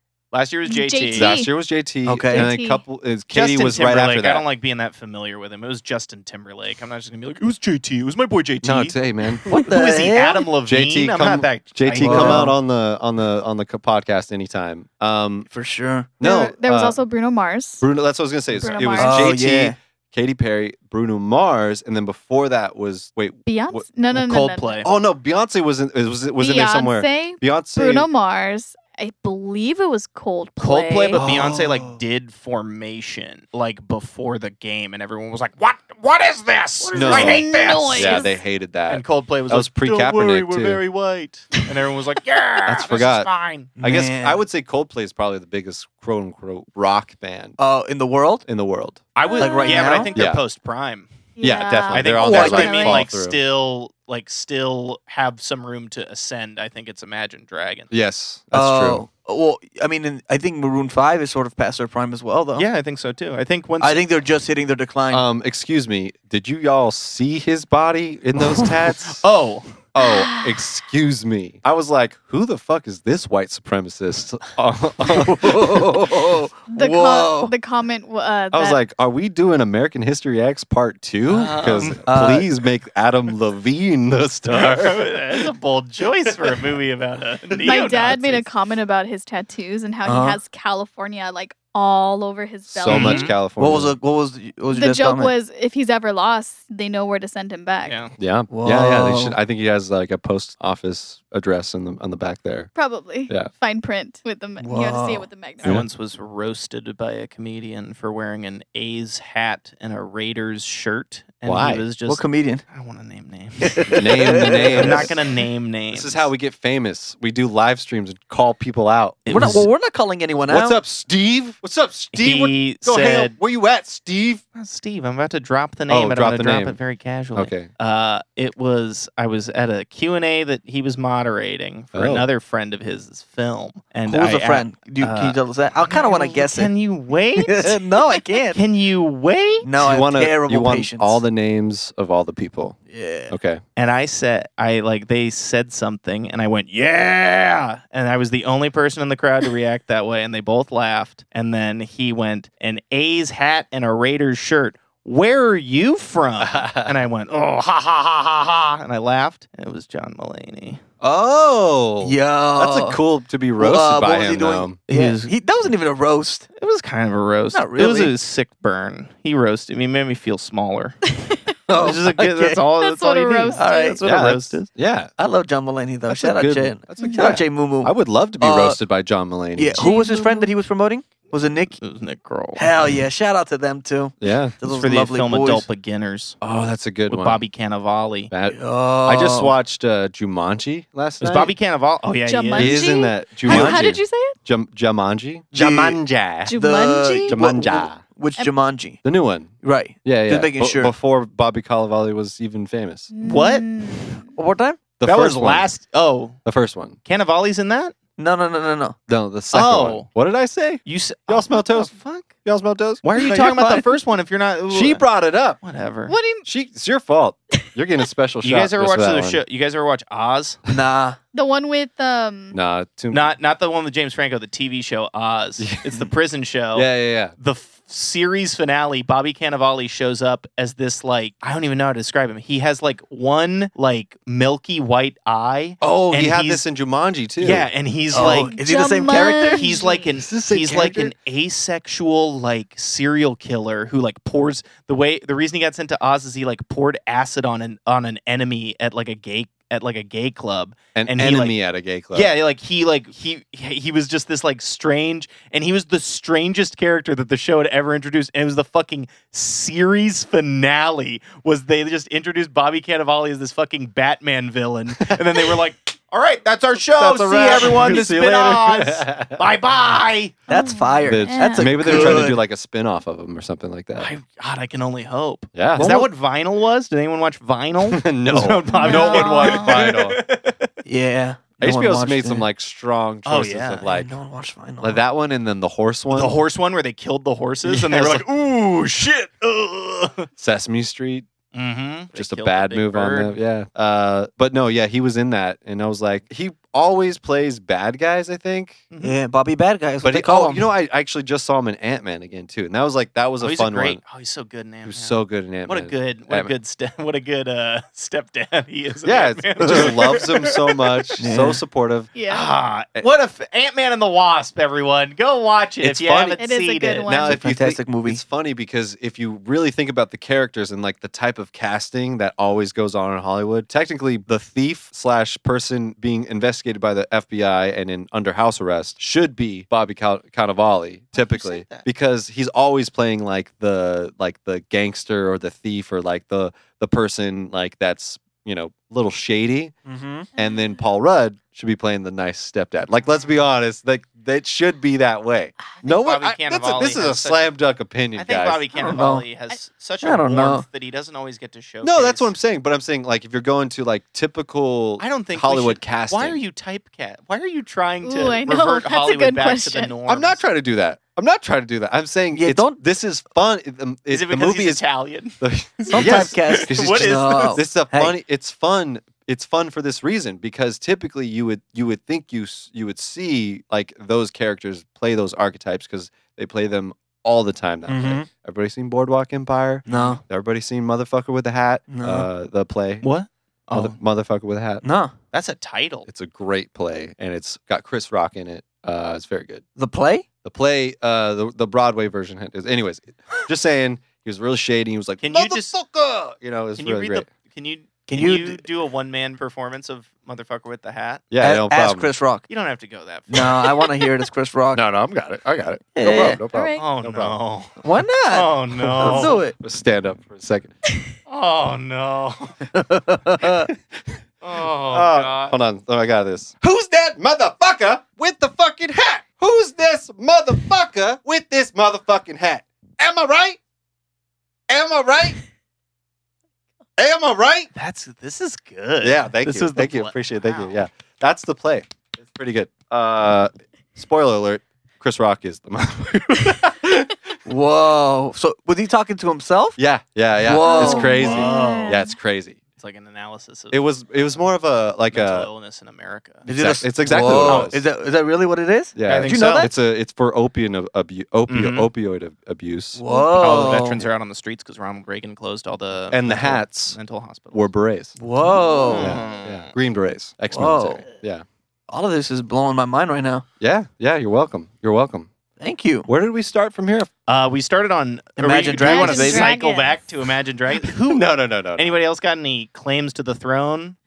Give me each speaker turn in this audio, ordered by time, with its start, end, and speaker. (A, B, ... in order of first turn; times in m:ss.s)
0:00.3-0:01.4 A
0:00.7-0:01.5 B
0:01.1-0:04.5 C
0:02.1-0:02.5 D
0:02.3-0:02.8 B
0:03.3-0:12.6 A
0:08.6-0:09.5 C
0:09.5-0:10.5 D
0:10.7-0:15.5 C
0:12.0-0:12.6 D
0:15.5-0:16.1 D
0:16.2-0:17.0 C
0:16.2-0:17.9 B
0:17.8-0:23.9 C
0:18.5-0:19.4 B
0:19.0-0:19.8 D
0:23.5-0:24.9 B
0:24.1-0:24.9 A
0:24.8-0:28.1 C
0:26.4-0:31.2 B
0:30.6-0:38.3 A
0:31.2-0:32.0 D
0:36.9-0:38.4 B
0:37.0-0:40.8 C
0:38.9-0:43.7 A
0:42.6-0:47.6 C
0:43.8-0:44.4 D
0:47.6-0:48.4 D
0:48.5-0:49.0 C
0:49.2-0:51.1 A
0:49.3-0:50.1 B
0:49.4-0:50.1 D
0:50.2-0:50.4 C
0:51.4-0:53.1 B
0:51.4-0:53.4 C
0:51.9-0:57.9 A
0:52.2-0:52.8 D
0:57.9-0:59.0 C
0:58.5-1:02.7 D
1:02.6-1:04.0 A
1:03.8-1:05.2 D
1:05.1-1:09.2 C
1:09.1-1:09.8 A
1:09.9-1:16.3 C
1:10.0-1:10.6 B
1:15.0-1:17.5 D
1:16.7-1:18.8 B
1:18.5-1:25.1 C
1:21.3-1:22.0 A
1:22.1-1:22.5 D
1:24.5-1:28.5 A
1:27.6-1:33.3 B
1:30.0-1:30.4 D
1:32.7-1:34.0 C
1:32.9-1:33.4 A
1:33.6-1:35.4 D
1:34.7-1:38.0 B
1:37.8-1:38.1 A
1:38.2-1:42.7 C
1:38.5-1:39.4 D
1:42.8-1:45.8 B
1:44.6-1:45.3 D
1:45.6-1:56.3 A
1:51.4-1:51.9 C
1:52.1-1:52.6 D
1:53.6-1:55.1 D
1:53.9-1:55.1 C
1:55.9-1:59.7 C
1:59.2-1:59.7 A
1:59.3-2:00.8 D
2:00.5-2:04.4 C
2:02.1-2:03.4 A
2:04.5-2:17.9 A
2:05.9-2:06.8 C
2:07.3-2:07.7 C
2:11.9-2:12.3 C
2:14.1-2:16.7 D
2:17.4-2:18.6 D
2:18.5-2:19.7 A
2:19.6-2:21.2 D
2:19.8-2:22.8 C
2:22.9-2:23.3 D
2:23.3-2:23.6 C
2:23.8-2:40.8 A
2:36.4-2:37.0 C
2:41.0-2:44.8 C
2:42.0-2:43.0 D
2:43.6-2:46.5 D
2:44.9-2:45.3 A
2:46.6-2:51.0 A
2:47.5-2:48.2 D
2:51.7-2:52.6 D
2:51.7-2:54.7 A
2:52.8-2:54.0 B
2:53.6-2:54.0 D
2:54.0-2:55.1 C
2:55.2-2:58.8 D
2:56.1-2:59.8 C
2:59.6-3:01.8 D
2:59.8-3:00.5 B
3:01.8-3:02.7 A
3:02.6-3:05.7 D
3:04.2-3:04.6 C
3:04.6-3:06.4 A
3:06.4-3:07.4 C
3:07.1-3:08.3 A
3:08.3-3:11.5 C
3:08.5-3:09.6 D
3:11.2-3:12.8 A
3:12.3-3:14.4 B
3:12.6-3:16.5 C
3:13.5-3:13.8 D
3:15.5-3:16.0 D
3:16.5-3:17.4 B
3:16.5-3:19.0 D
3:17.3-3:18.0 C
3:19.0-3:19.5 C
3:19.6-3:20.9 D
3:20.0-3:23.1 C
3:23.1-3:24.3 B
3:23.2-3:23.9 A
3:24.4-3:24.8 D
3:25.0-3:25.7 C
3:25.0-3:26.4 A
3:26.4-3:27.0 C
3:27.0-3:28.0 A
3:28.2-3:29.0 D
3:29.1-3:33.7 C
3:29.5-3:30.1 A
3:30.8-3:32.4 A
3:33.0-3:35.1 A
3:33.2-3:33.9 D
3:34.7-3:35.6 C
3:35.6-3:36.2 A
3:36.1-3:36.4 B
3:36.4-3:39.4 C
3:38.4-3:40.6 A
3:40.7-3:41.2 D
3:41.3-3:42.6 B
3:42.5-3:43.3 C
3:43.1-3:56.6 A
3:45.6-3:46.1 C
3:46.7-3:47.4 C
3:55.8-3:57.7 C
3:57.4-4:11.6 A
3:58.1-3:59.7 D
3:58.2-4:00.1 B
4:00.2-4:01.1 C
4:11.0-4:12.3 C
4:12.1-4:30.4 A
4:27.0-4:29.4 C
4:30.5-4:32.2 B
4:30.5-4:32.4 D
4:31.0-4:34.1 C
4:31.9-4:32.3 A
4:34.0-4:40.7 A
4:35.6-4:36.1 C
4:35.8-4:36.0 D
4:37.8-4:40.2 C
4:38.7-4:39.8 B
4:40.8-4:42.5 D
4:41.6-4:44.1 C
4:43.3-4:43.9 A
4:43.9-4:45.0 D
4:44.8-4:46.4 C
4:46.1-4:50.3 A
4:47.7-4:48.2 C
4:50.4-4:51.3 C
4:51.5-4:53.4 A
4:52.1-4:58.8 C
4:58.9-4:59.2 A
4:59.0-5:00.7 D
5:00.0-5:04.0 C
5:03.4-5:11.2 A
5:04.9-5:06.5 C
5:09.0-5:12.1 C
5:09.6-5:09.9 D
5:11.2-5:11.6 D
5:12.2-5:12.4 B
5:12.3-5:17.1 A
5:15.8-5:16.4 C
5:16.4-5:17.4 B
5:17.1-5:39.8 C
5:17.3-5:18.2 D
5:31.2-5:31.9 A
5:39.9-5:40.3 D
5:40.4-5:48.7 C
5:45.8-5:47.6 A
5:48.2-5:52.3 A
5:48.8-5:49.3 D
5:50.0-5:50.7 D
5:51.8-5:56.4 C
5:55.0-6:00.4 A
5:58.0-5:59.9 B
6:00.1-6:04.8 C
6:02.3-6:02.8 D
6:04.1-6:07.6 A
6:05.4-6:23.1 C
6:05.9-6:08.2 D
6:17.9-6:18.3 D
6:19.9-6:20.2 D
6:19.9-6:20.2 A
6:21.9-6:22.3 D
6:23.0-6:24.0 A
6:23.7-6:24.8 C
6:24.8-6:25.1 D
6:25.3-6:26.1 A
6:26.1-6:29.6 C
6:29.8-6:30.3 D
6:30.4-6:37.3 C
6:35.2-6:35.7 A
6:36.8-6:41.2 A
6:38.1-6:38.6 D
6:41.3-6:42.1 C
6:41.4-6:42.5 D
6:42.5-6:43.9 A
6:43.3-6:44.8 D
6:44.7-6:47.4 C
6:46.0-6:46.4 D
6:46.5-6:46.9 B
6:46.8-6:49.4 A
6:47.8-6:49.6 D
6:49.0-6:50.7 C
6:51.3-6:52.6 A
6:52.7-6:53.7 D
6:54.4-6:55.6 A
6:54.9-7:03.6 C
7:04.7-7:05.4 C
7:07.0-7:07.7 C
7:07.7-7:10.6 A
7:09.0-7:17.1 C
7:17.5-7:19.8 D
7:19.8-7:22.6 C
7:20.4-7:21.6 D
7:20.6-7:22.1 B
7:20.8-7:22.1 A
7:22.8-7:23.9 A
7:23.7-7:25.5 C
7:25.1-7:26.5 A
7:26.5-7:29.7 D
7:26.5-7:27.8 C
7:27.2-7:27.7 A
7:29.0-7:33.0 C
7:29.1-7:29.7 A
7:31.5-7:31.9 A
7:33.0-7:34.1 D
7:33.1-7:33.8 B
7:33.3-7:37.7 A
7:36.1-7:37.0 C
7:37.5-7:38.2 C
7:38.2-7:39.2 D
7:38.4-7:39.7 A
7:38.7-7:38.9 B
7:38.9-7:41.4 C
7:40.5-7:41.0 D
7:41.9-7:43.5 D
7:43.6-7:45.3 C
7:45.6-7:46.1 D
7:46.1-7:47.1 C
7:47.3-7:54.0 A
7:48.4-7:49.5 D
7:48.8-7:50.0 B
7:51.1-7:52.0 C